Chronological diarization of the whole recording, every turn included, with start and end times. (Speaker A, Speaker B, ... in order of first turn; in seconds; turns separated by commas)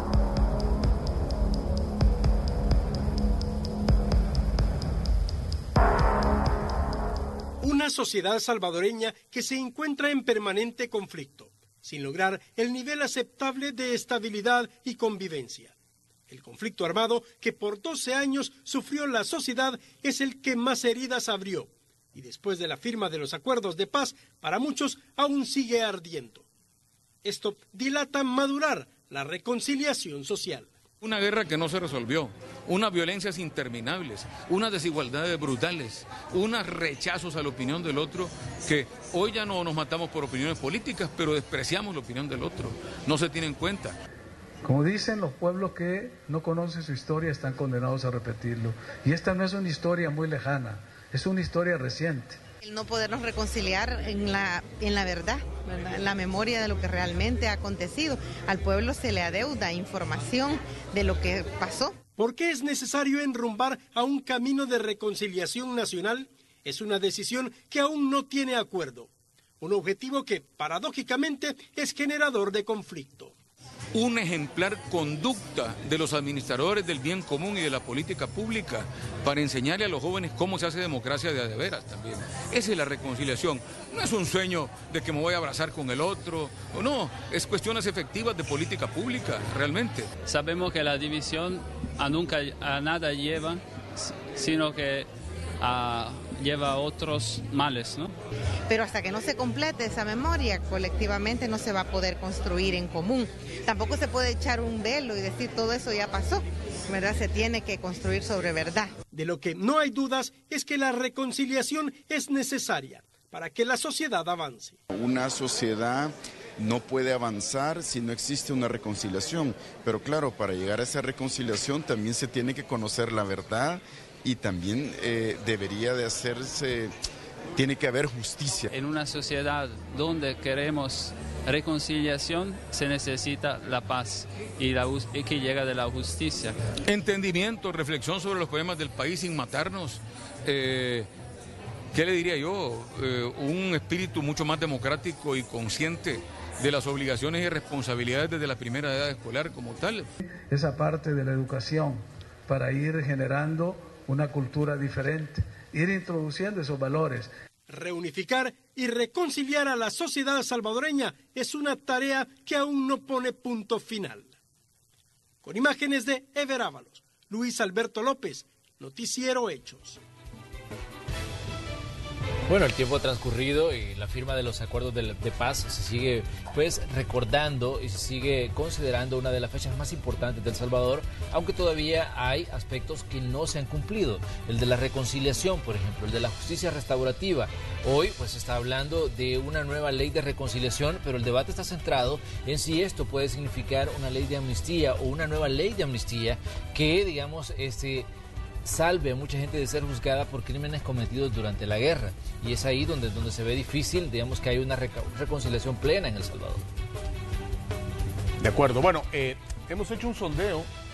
Speaker A: 7.6-15.7, Speaker A: 16.3-26.4, Speaker A: 27.2-30.7, Speaker B: 31.0-44.0, Speaker C: 44.6-52.4, Speaker D: 52.6-61.9, Speaker A: 62.2-73.3, Speaker B: 73.9-90.1, Speaker E: 90.2-95.1, Speaker E: 95.6-98.1, Speaker D: 98.7-108.9, Speaker A: 109.1-114.8, Speaker F: 114.9-126.9, Speaker F: 127.6-128.7, Speaker E: 128.7-136.6, Speaker B: 136.9-141.1, Speaker B: 141.9-150.1, Speaker C: 150.5-157.3, Speaker A: 157.7-164.4, Speaker A: 165.4-170.0, Speaker G: 172.4-198.1, Speaker G: 198.6-206.7, Speaker H: 208.4-210.7